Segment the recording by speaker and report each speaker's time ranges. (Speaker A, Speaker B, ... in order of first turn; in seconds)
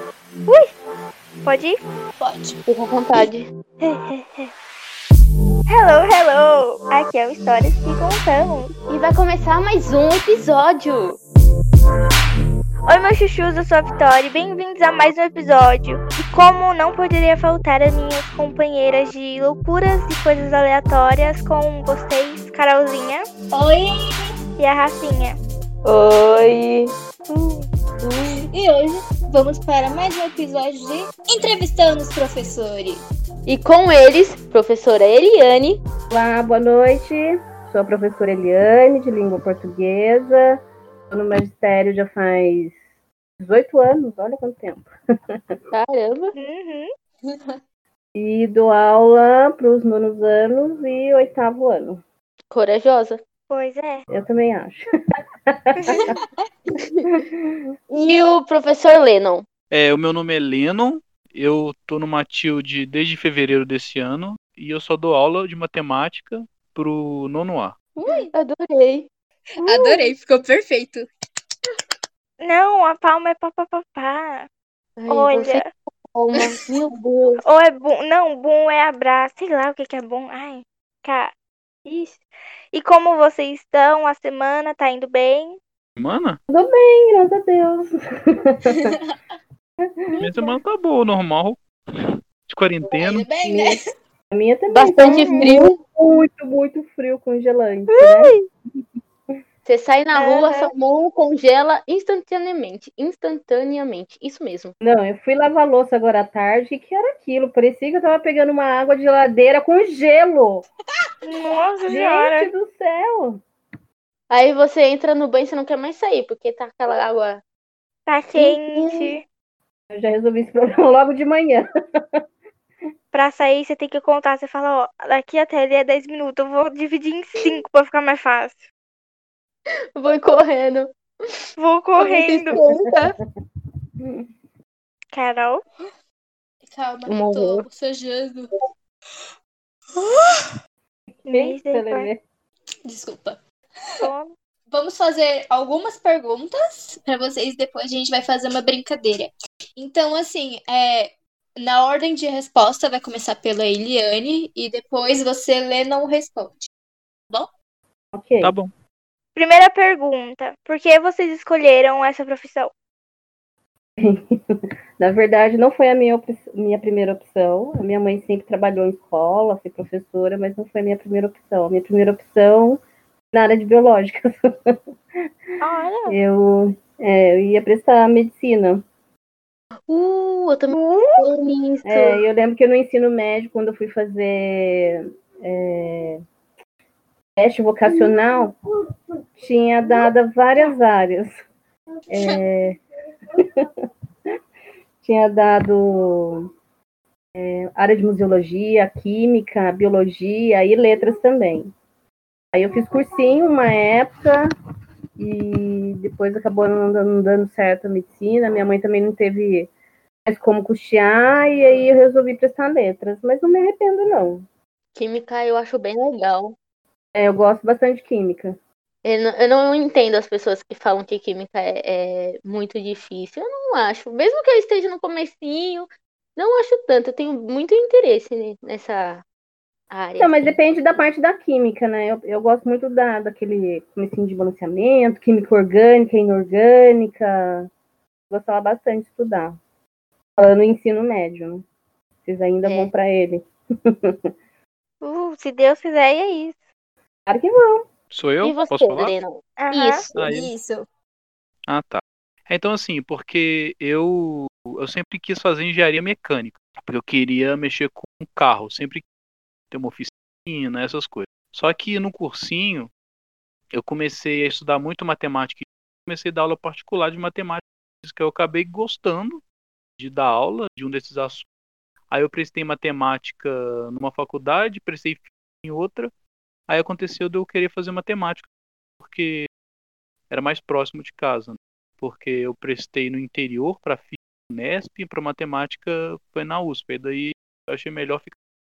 Speaker A: 1.4-1.8, 3.8-4.5, 5.7-8.7, 12.9-23.3, 24.6-25.4, 27.3-27.7, 46.3-46.9, 53.5-54.0, 69.6-70.1, 72.4-74.5, 75.1-75.7, 77.4-81.3, 81.8-85.6, 95.0-95.5, 97.9-98.5, 100.2-100.7, 111.2-112.5, 118.1-119.2, 123.1-128.6, 131.6-132.6, 135.1-135.6, 141.3-142.1, 144.0-144.3, 159.3-162.7, 175.6-176.2, 180.7-181.3, 245.0-246.6, 249.6-250.1
Speaker B: 2.2-2.6, 23.5-24.4, 28.5-33.0, 55.9-56.5, 69.6-71.1, 88.7-89.2, 92.9-93.9, 136.7-138.6, 140.0-140.5, 142.9-143.4, 144.7-156.7, 250.3-250.9
Speaker C: 2.7-3.5, 8.9-11.2, 25.8-26.9, 28.0-28.5, 33.5-35.8, 45.7-46.3, 52.5-53.2, 56.8-57.1, 57.9-59.5, 68.3-69.1, 75.0-77.4, 94.7-95.8, 99.7-104.8, 114.3-117.4, 118.4-119.2, 129.9-131.4, 132.0-133.2, 137.1-137.6, 179.9-182.2, 187.9-188.2, 214.9-216.6, 219.0-229.2, 229.9-230.6, 242.6-242.9, 248.4-250.3
Speaker D: 36.1-42.8, 43.4-45.6, 48.1-52.0, 54.1-54.8, 55.5-56.2, 57.1-57.7, 86.5-88.9, 89.9-90.5, 93.4-93.8, 94.3-98.3, 104.8-110.7, 111.9-113.4, 119.9-121.6, 132.6-133.1, 134.0-134.3, 141.2-142.2, 158.1-158.5, 164.0-164.4, 165.0-172.8, 173.3-174.7, 176.1-178.8, 181.8-186.2, 187.4-188.6, 189.4-191.3, 192.1-192.8, 193.4-193.7, 195.0-196.5, 197.4-201.7, 202.5-204.5, 205.2-209.7, 210.3-214.4, 217.1-218.6, 230.2-237.7, 238.3-239.6, 240.4-241.7, 242.2-244.2, 247.3-247.8
Speaker E: 59.7-67.8, 86.0-86.4, 90.2-93.3, 158.4-158.7, 248.1-249.1, 250.2-250.5, 251.7-259.0, 259.7-262.9, 263.7-269.4, 270.0-271.5, 272.1-276.1, 276.7-278.5, 279.0-279.5, 280.3-288.4